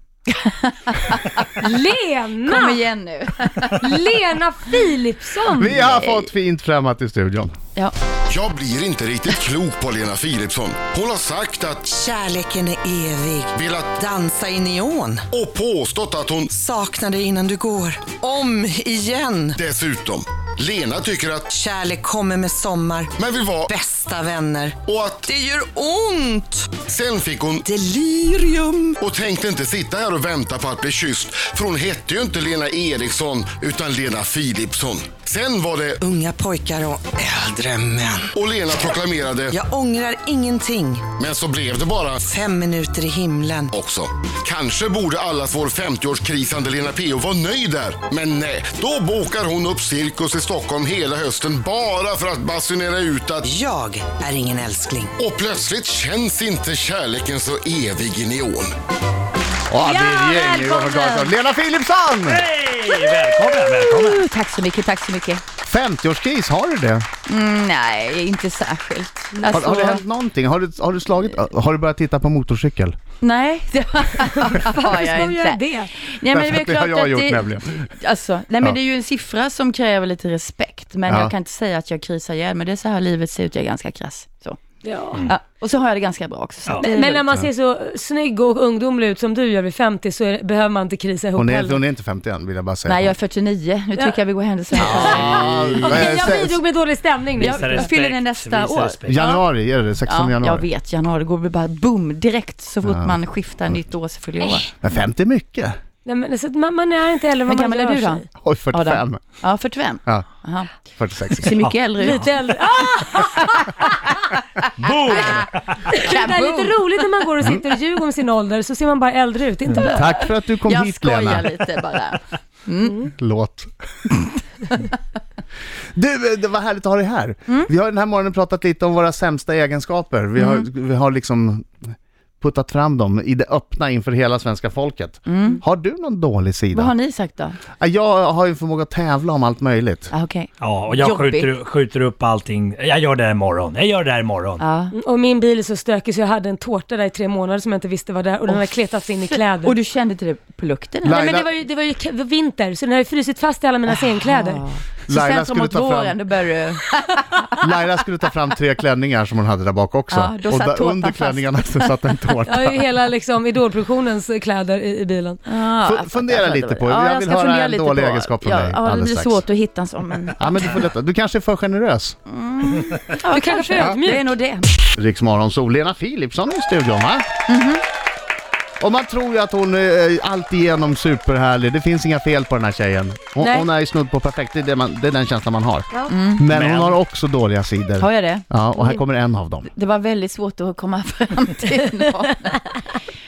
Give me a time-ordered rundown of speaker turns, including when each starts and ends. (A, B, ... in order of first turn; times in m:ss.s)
0:00.3-0:01.7 A
0:01.6-0:02.8 B
0:02.4-0:03.9 A
0:03.8-0:05.9 B
0:05.5-0:07.5 C
0:05.8-0:06.3 A
0:08.3-0:12.0 D
0:11.9-0:15.3 E
0:13.5-0:14.1 D
0:15.3-0:16.6 D
0:16.5-0:19.6 E
0:19.5-0:21.5 D
0:21.5-0:23.2 E
0:23.2-0:23.8 D
0:23.7-0:26.8 E
0:24.8-0:25.3 D
0:26.8-0:27.7 D
0:27.6-0:29.0 E
0:29.0-0:36.0 D
0:36.0-0:38.8 E
0:38.3-0:39.6 D
0:39.5-0:41.1 E
0:41.1-0:42.3 D
0:42.2-0:43.7 E
0:43.7-0:53.5 D
0:53.5-0:55.2 E
0:55.2-0:58.7 D
0:59.7-1:02.4 C
0:59.8-1:01.3 A
1:02.2-1:04.2 F
1:03.5-1:05.4 A
1:05.6-1:07.1 C
1:07.3-1:10.0 A
1:09.4-1:09.9 B
1:09.5-1:13.0 C
1:13.2-1:24.6 A
1:14.4-1:15.9 B
1:16.3-1:17.9 C
1:21.1-1:21.3 C
1:24.8-1:25.3 B
1:25.3-1:27.2 A
1:26.7-1:26.9 F
1:26.8-1:31.8 B
1:31.4-1:33.1 C
1:32.8-1:36.0 A
1:34.8-1:38.0 B
1:34.8-1:36.6 C
1:35.0-1:36.1 F
1:37.4-1:39.3 F
1:37.4-1:39.4 A
1:39.1-1:40.6 C
1:40.1-1:44.7 A
1:42.8-1:43.2 C
1:44.7-1:45.8 C
1:46.0-1:48.2 B
1:47.5-1:50.8 A
1:48.4-1:49.2 C
1:50.9-1:51.6 C
1:51.3-1:52.3 A
1:51.6-1:52.1 F
1:52.0-1:53.6 B
1:53.2-1:54.1 A
1:54.8-1:55.8 F
1:55.1-1:55.5 A
1:55.9-2:00.2 B
1:56.0-1:57.1 A
1:59.8-2:01.5 C
2:00.6-2:03.1 A
2:03.2-2:03.7 C
2:05.9-2:16.9 C
2:10.4-2:10.6 A
2:15.3-2:15.6 A
2:16.7-2:17.6 A
2:17.8-2:20.1 C
2:20.1-2:21.5 A
2:20.6-2:24.6 F
2:24.6-2:24.9 A
2:24.9-2:29.8 B
2:29.2-2:31.2 A
2:31.0-2:31.5 C
2:31.1-2:34.6 B
2:33.9-2:37.8 A
2:35.1-2:36.2 C
2:37.5-2:42.8 C
2:40.1-2:41.9 A
2:42.5-2:45.4 B
2:45.5-2:50.8 A
2:45.8-2:49.4 C
2:50.4-2:52.2 C
2:52.3-2:54.7 A
2:53.3-2:54.3 B
2:54.9-2:57.2 C
2:57.5-2:57.8 A
2:58.8-3:09.7 C
3:03.4-3:03.7 B
3:06.1-3:06.5 A
3:06.5-3:07.0 F
3:08.0-3:09.0 A
3:09.7-3:12.8 A